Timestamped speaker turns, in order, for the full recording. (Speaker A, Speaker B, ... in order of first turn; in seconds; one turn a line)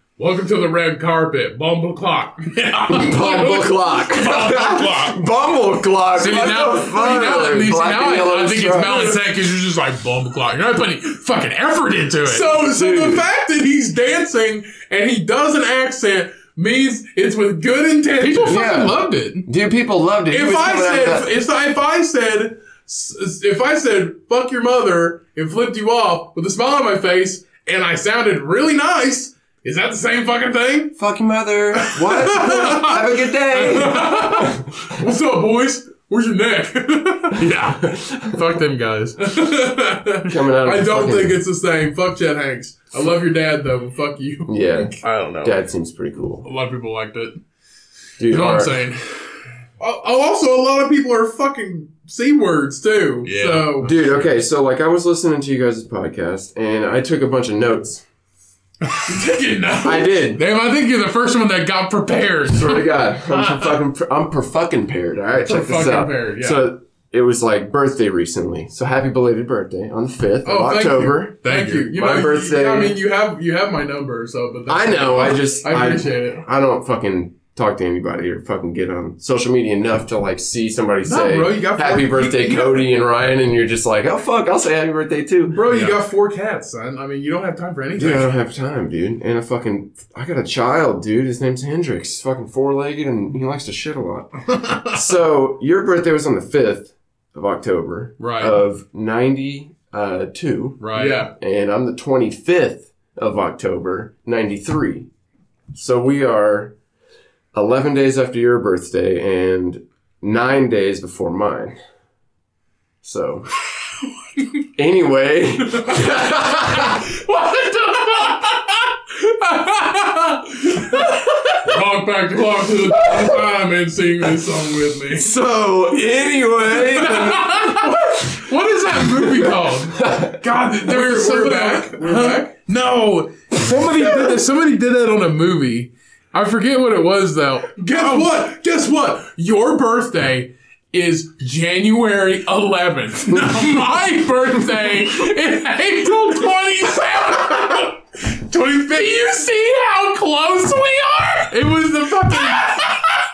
Speaker A: 0.2-2.6
Speaker B: 2.5-5.2
Speaker C: 2.9-9.2
Speaker B: 6.2-12.5
Speaker A: 12.2-18.7
Speaker C: 12.6-13.2
Speaker B: 18.2-19.4
Speaker C: 18.4-21.3
Speaker A: 20.3-30.9
Speaker C: 31.0-34.9
Speaker A: 32.1-37.4
Speaker B: 37.3-39.2
Speaker A: 39.2-45.0
Speaker C: 40.2-41.4
Speaker C: 44.5-46.5
Speaker B: 45.0-45.5
Speaker B: 46.4-47.3
Speaker C: 48.2-48.8
Speaker B: 48.3-49.0
Speaker A: 49.8-54.1
Speaker B: 53.2-53.9
Speaker C: 53.8-58.0
Speaker B: 58.8-63.7
Speaker A: 59.1-60.1
Speaker C: 59.8-60.4
Speaker C: 62.5-73.0
Speaker A: 65.4-66.7
Speaker A: 70.4-76.4
Speaker B: 71.4-71.9
Speaker C: 74.7-85.6
Speaker A: 81.0-82.9
Speaker A: 85.5-88.3
Speaker B: 85.7-85.9
Speaker C: 88.0-94.3
Speaker C: 94.8-105.1
Speaker B: 98.2-98.5
Speaker B: 100.8-101.2
Speaker A: 100.9-101.3
Speaker C: 105.7-106.7
Speaker C: 107.5-111.7
Speaker C: 113.0-113.5
Speaker C: 114.8-117.0
Speaker B: 115.9-121.8
Speaker A: 121.6-125.3
Speaker C: 125.1-128.3
Speaker B: 126.7-138.4
Speaker C: 129.0-130.4
Speaker A: 130.6-132.5
Speaker C: 134.0-134.3
Speaker A: 137.8-140.4
Speaker B: 140.9-153.2